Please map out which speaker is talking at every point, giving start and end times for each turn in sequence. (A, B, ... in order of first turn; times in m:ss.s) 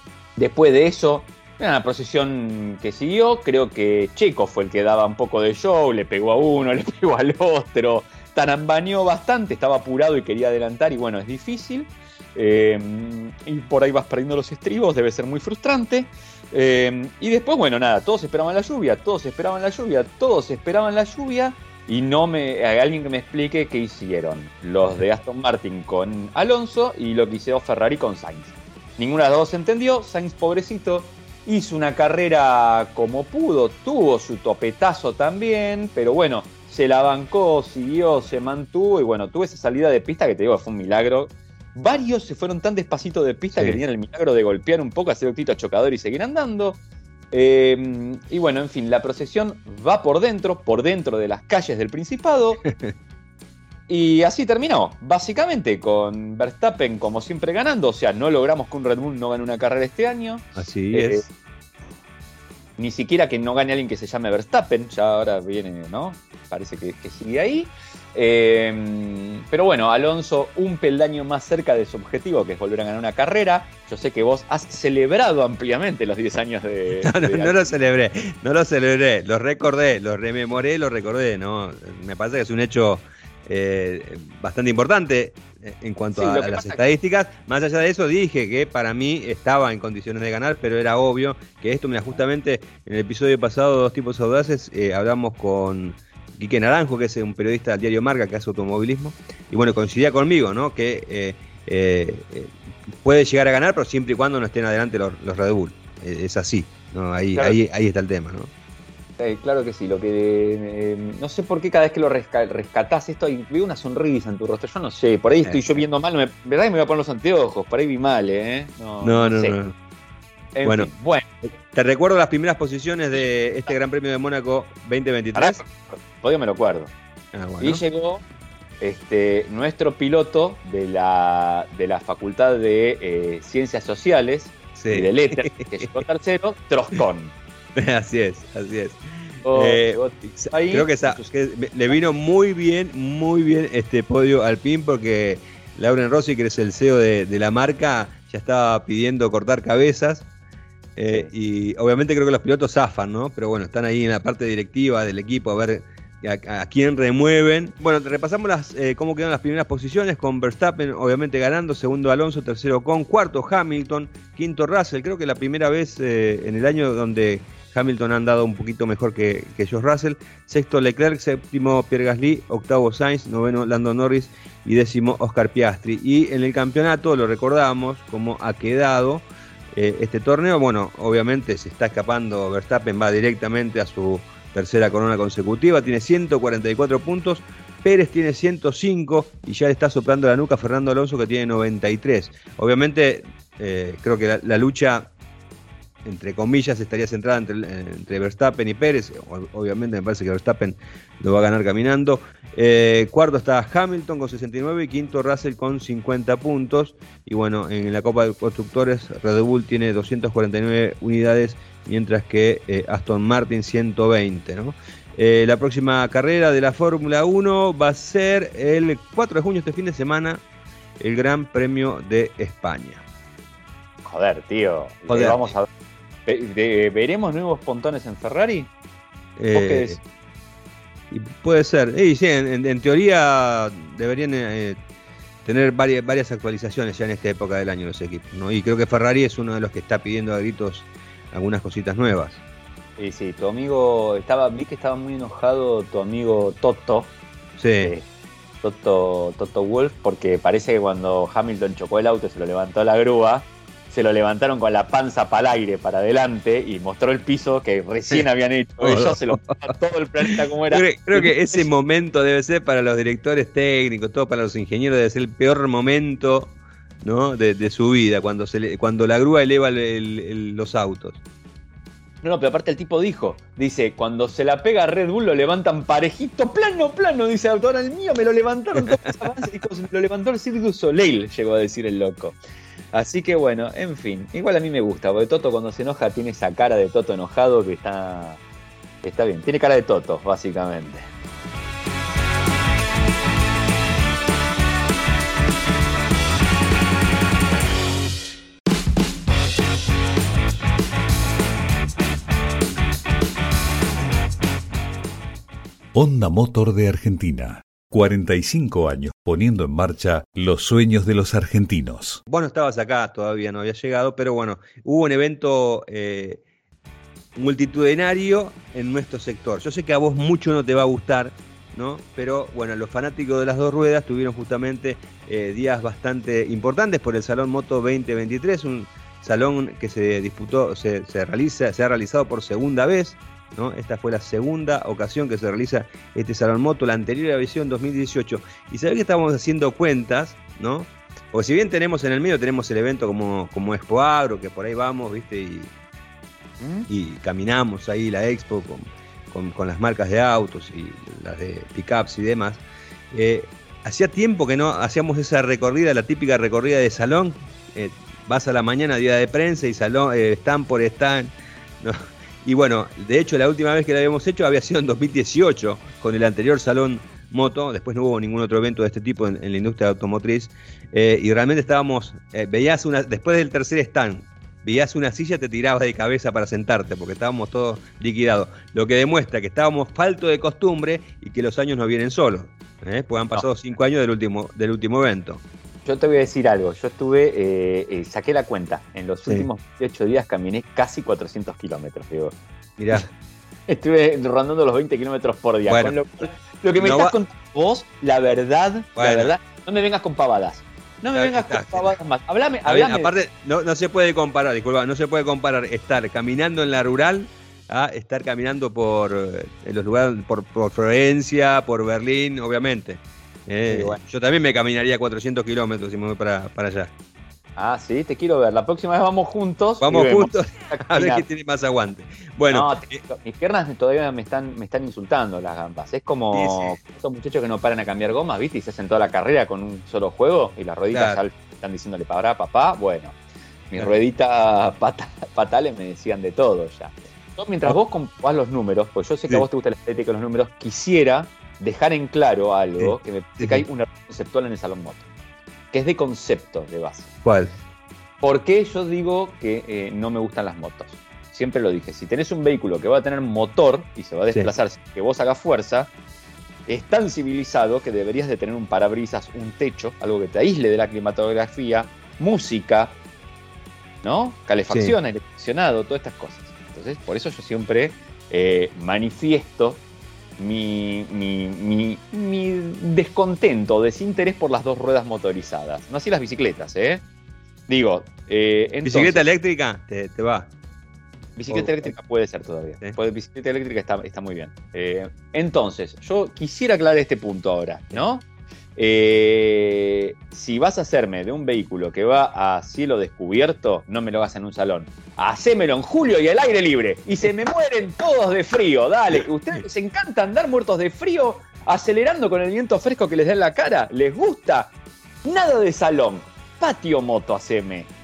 0:00.4-0:46.8 A
0:47.3-0:52.6 A
0:52.6-0:52.9 B
0:53.9-1:01.3 A
1:00.6-1:01.2 B
1:02.8-1:17.8 A
1:17.0-1:48.5 B
1:26.2-1:26.8 A
1:49.2-1:59.6 A
1:55.4-1:55.8 B
1:59.0-1:59.8 B
2:00.6-2:01.3 A
2:00.6-2:00.9 B
2:01.4-2:05.6 B
2:05.4-2:06.9 A
2:07.3-2:07.8 B
2:07.6-2:08.2 A
2:08.8-2:17.4 A
2:14.8-2:16.0 B
2:17.8-2:30.3 B
2:19.4-2:21.3 A
2:31.0-3:15.1 B
3:16.0-3:40.4 B
3:41.0-3:43.0 B
3:44.0-3:45.7 A
3:45.1-3:45.5 B
3:46.3-3:48.7 A
3:49.4-3:50.0 B
3:49.5-3:50.0 A
3:51.1-3:54.8 B
3:55.4-4:02.4 B
4:03.0-4:07.2 A
4:07.6-4:07.9 B
4:07.8-4:08.1 A
4:08.6-4:21.7 A
4:18.8-4:19.6 B
4:20.7-4:31.2 B
4:32.2-4:42.4 A
4:42.9-4:48.4 A
4:49.0-4:51.1 A
5:05.9-5:12.2 C
5:12.3-5:16.4 B
5:17.4-5:45.7 B
5:46.6-5:46.9 A
5:46.9-6:25.4 B
6:25.8-6:32.4 A
6:32.8-6:33.1 B
6:33.7-6:43.1 A
6:35.7-6:36.0 B
6:36.8-6:37.2 B
6:39.0-6:39.3 B
6:41.2-6:42.0 B
6:42.7-6:56.9 B
6:53.7-6:54.0 A
6:57.6-7:01.2 A
6:59.8-7:03.0 B
7:02.5-7:13.2 A
7:06.3-7:06.8 B
7:10.9-7:11.2 B
7:13.7-7:25.1 A
7:22.8-7:23.6 B
7:25.7-7:27.1 A
7:27.2-7:27.5 B
7:28.2-7:35.9 A
7:36.7-7:43.0 A
7:44.0-7:49.8 A
7:44.7-7:45.0 B
7:50.4-7:57.0 A
7:57.7-7:59.2 A
7:58.8-8:00.5 B
8:01.4-8:08.2 A
8:01.5-8:01.9 B
8:08.8-8:24.7 A
8:25.2-8:27.9 A